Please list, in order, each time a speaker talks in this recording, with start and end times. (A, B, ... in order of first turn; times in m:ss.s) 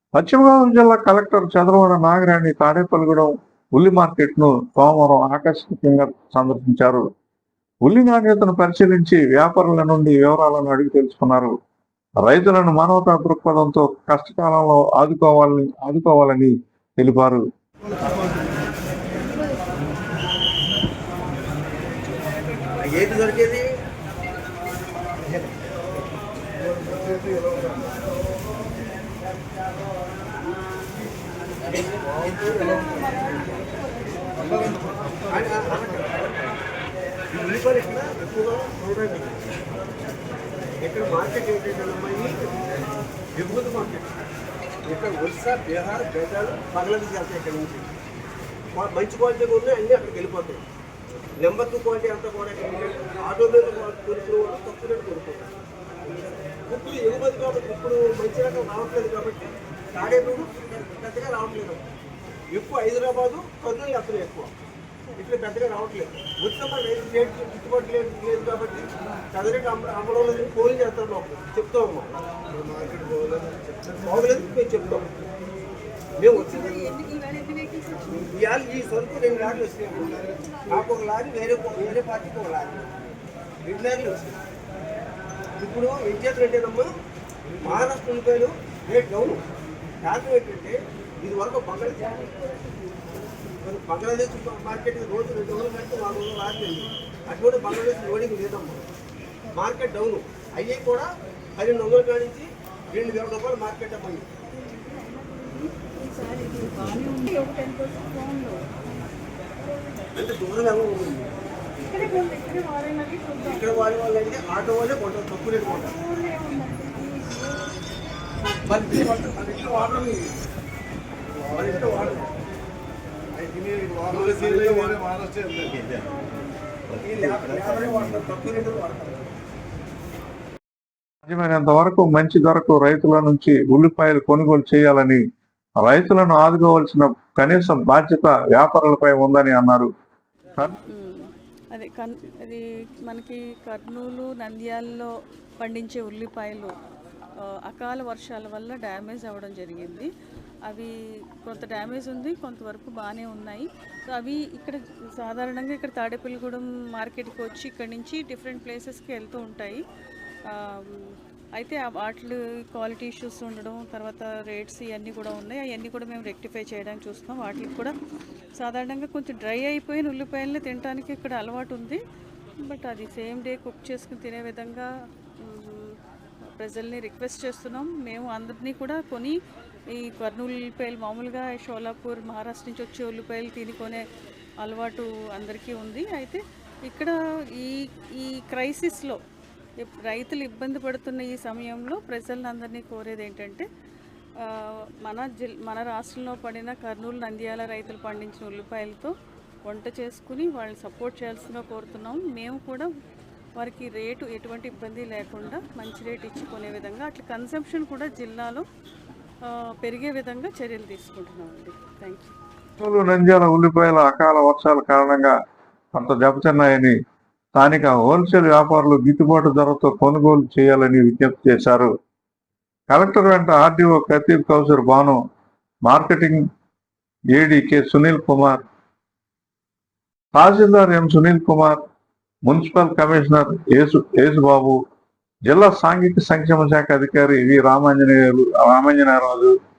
0:00.2-0:07.1 A
0:07.8-0:11.6 A
0:12.2-0:17.4 A
0:22.7-0:23.7 B
0:32.2-0:35.0 C
0:35.3-0:36.6 B
0:37.3-0:39.5 B
0:40.8-0:42.4 B
0:43.4-0:44.1 B
0:44.9-0:47.9 B
0:48.7-0:50.6 B
0:51.4-0:55.5 B
0:56.7-1:01.8 B
1:02.5-1:04.5 B
1:05.2-1:12.1 B
1:14.0-1:15.1 B
1:16.2-1:16.9 B
1:16.4-1:18.1 C
1:18.1-1:22.9 B
1:23.6-1:24.4 B
1:25.6-1:26.9 B
1:27.6-1:29.4 B
1:30.0-1:32.4 B
1:33.6-1:38.8 B
1:39.5-1:44.3 B
1:44.7-1:48.8 C
1:50.2-1:51.3 B
1:51.8-1:53.9 C
1:53.4-1:55.9 B
1:55.7-1:57.7 C
1:58.6-2:00.4 B
2:01.5-2:02.3 B
2:03.9-2:05.2 B
2:06.9-2:09.2 B
2:11.2-2:15.2 A
2:15.8-2:19.9 A
2:20.9-2:26.7 C
2:27.4-2:30.1 C
2:30.6-2:39.8 C
2:40.4-2:47.9 C
2:48.6-2:52.0 C
2:52.6-2:56.0 C
2:56.6-2:59.4 C
2:59.9-3:04.0 C
3:04.6-3:09.2 C
3:09.8-3:13.7 C
3:14.4-3:19.1 C
3:19.6-3:22.9 C
3:23.6-3:28.6 C
3:29.4-3:32.3 C
3:32.8-3:35.3 A
3:35.9-3:37.0 A
3:37.6-3:41.9 A
3:42.9-3:45.2 A
3:45.8-3:46.4 A
3:47.3-3:48.6 A
3:50.3-3:51.8 A
3:52.5-3:54.8 A
3:55.5-3:59.5 A